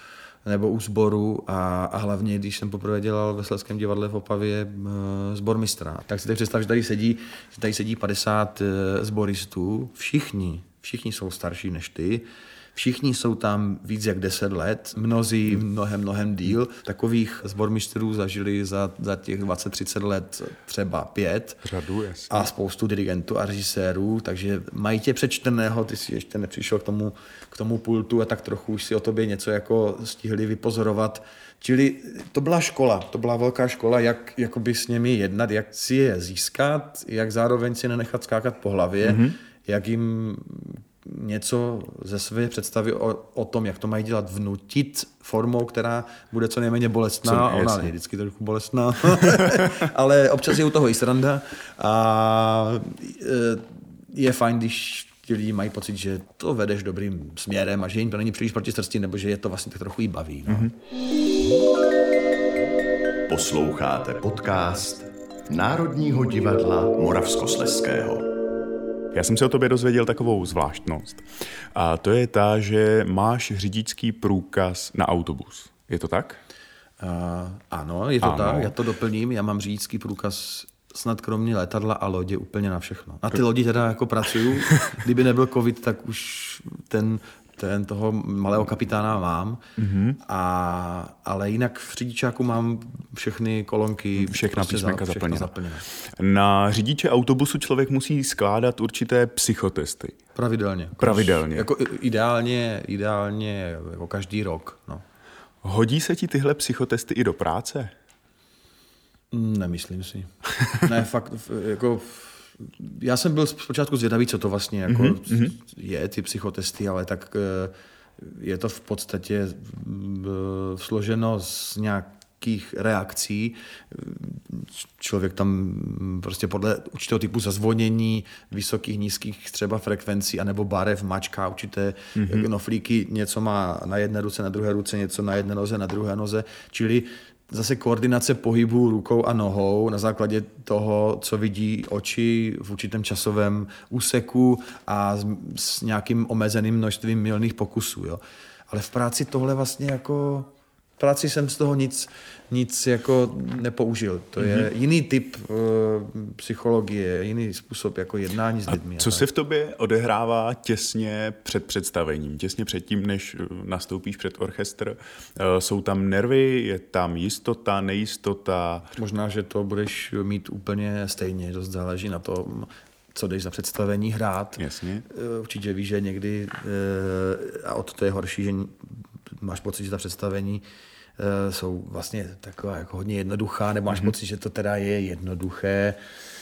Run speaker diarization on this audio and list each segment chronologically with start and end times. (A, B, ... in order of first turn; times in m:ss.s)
0:00.4-0:21.6 A
0:21.6-0:22.5 B
0:22.3-1:00.7 A
0:39.0-0:39.4 B
0:47.2-0:47.9 B
1:00.5-1:00.7 B
1:03.3-1:08.3 C
1:09.1-1:11.2 B
1:11.7-1:16.4 B
1:17.0-1:29.6 A
1:18.2-1:18.8 B
1:24.7-1:24.9 B
1:29.8-1:30.2 B
1:30.2-1:35.8 A
1:34.2-1:40.2 B
1:40.3-1:45.0 A
1:41.0-1:41.7 B
1:45.6-1:47.9 B
1:49.3-2:39.3 A
1:54.9-1:55.5 B
2:12.1-2:12.5 B
2:34.4-2:34.7 B
2:38.7-2:48.9 B
2:48.9-3:00.6 A
2:54.6-2:55.0 B
3:01.2-3:06.0 A
3:03.9-3:04.1 B